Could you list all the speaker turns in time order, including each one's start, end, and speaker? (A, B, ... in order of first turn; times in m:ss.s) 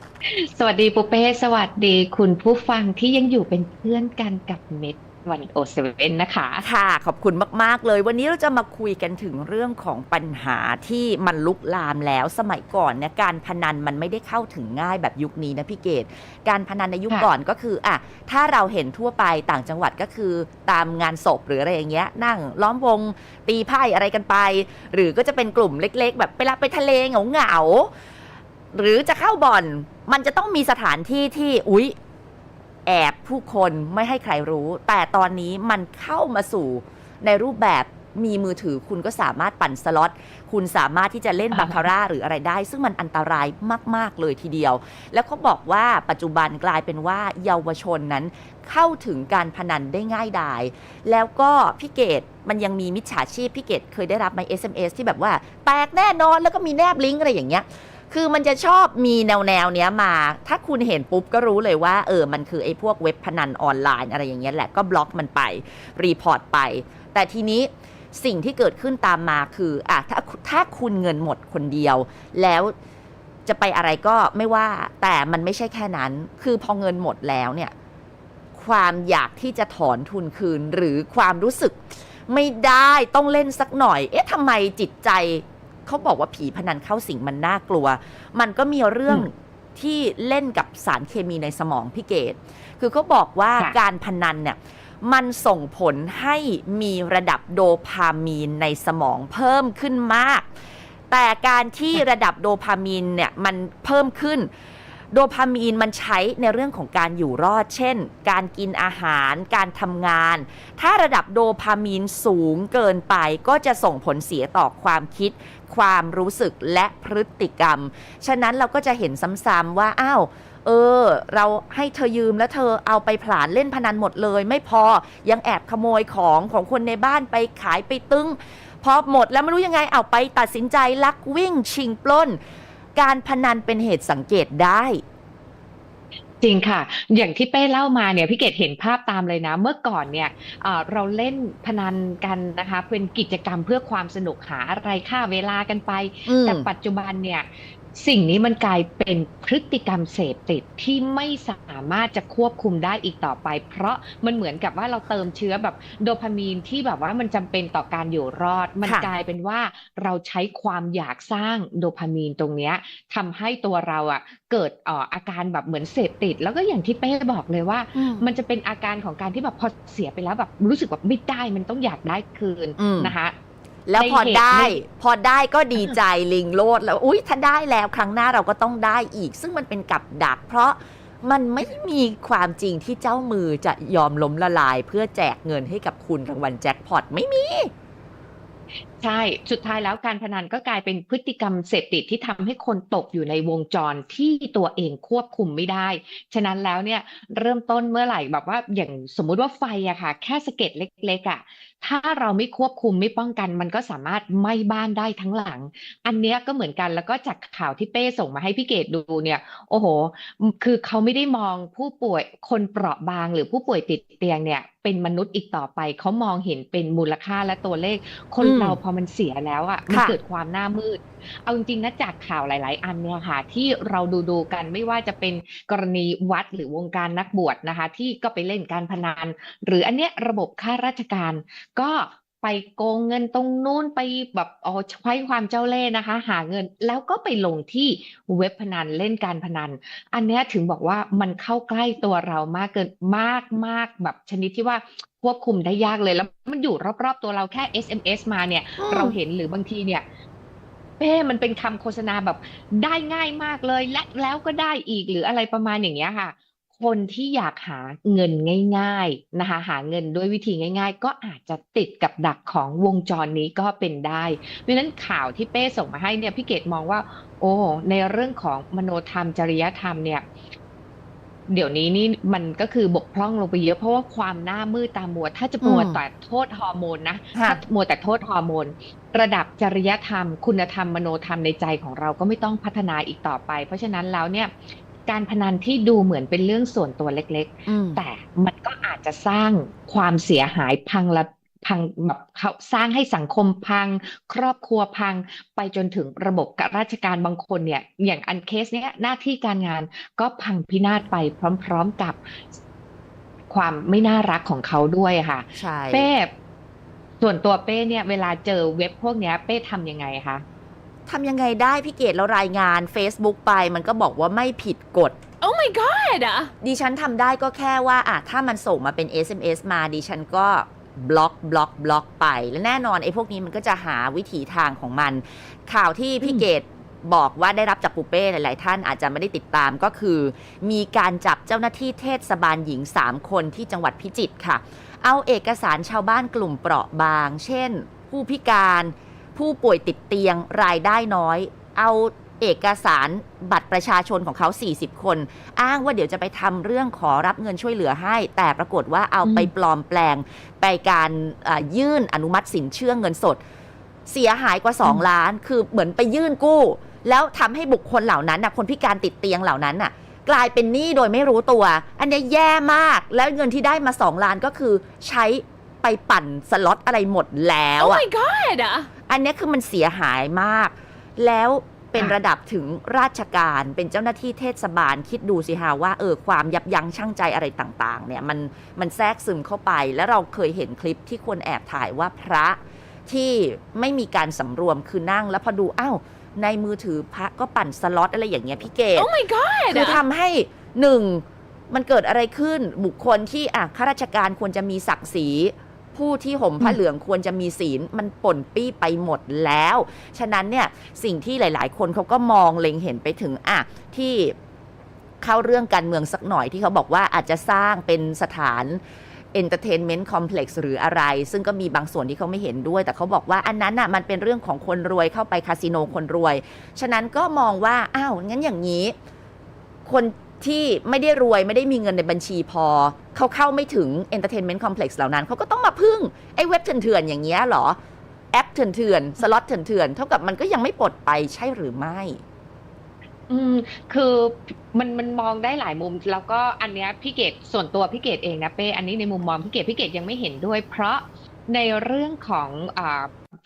0:00.2-0:06.6 A
0:06.6-0:27.9 B
0:28.7-0:31.9 B
0:32.8-1:12.7 B
0:41.5-0:41.9 A
1:13.4-1:17.7 B
1:18.5-1:40.5 B
1:41.1-1:44.5 B
1:45.1-2:12.4 B
2:13.0-2:15.0 B
2:16.4-2:53.3 A
2:26.3-2:26.7 B
2:38.8-2:39.1 B
2:47.9-2:48.2 B
2:52.8-2:53.1 B
2:53.8-3:07.7 B
2:53.9-2:54.8 A
3:09.0-4:10.0 A
3:38.4-3:38.8 B
3:39.9-3:40.2 B
4:08.8-4:09.2 B
4:11.0-4:30.2 A
4:31.5-5:02.6 A
4:35.6-4:36.0 B
4:37.3-4:37.6 B
4:47.7-4:48.0 B
5:03.5-5:06.3 A
5:05.6-5:06.1 B
5:07.2-5:10.4 A
5:11.1-5:15.2 B
5:15.4-5:16.5 C
5:16.6-5:53.4 B
5:49.2-5:49.5 A
5:54.0-6:08.1 B
6:07.8-6:08.9 C
6:09.1-6:29.1 B
6:28.9-6:30.0 C
6:29.7-6:44.3 B
6:45.2-6:48.8 B
6:49.3-6:58.9 B
6:59.8-7:07.8 B
7:08.3-7:12.2 B
7:13.3-7:23.1 A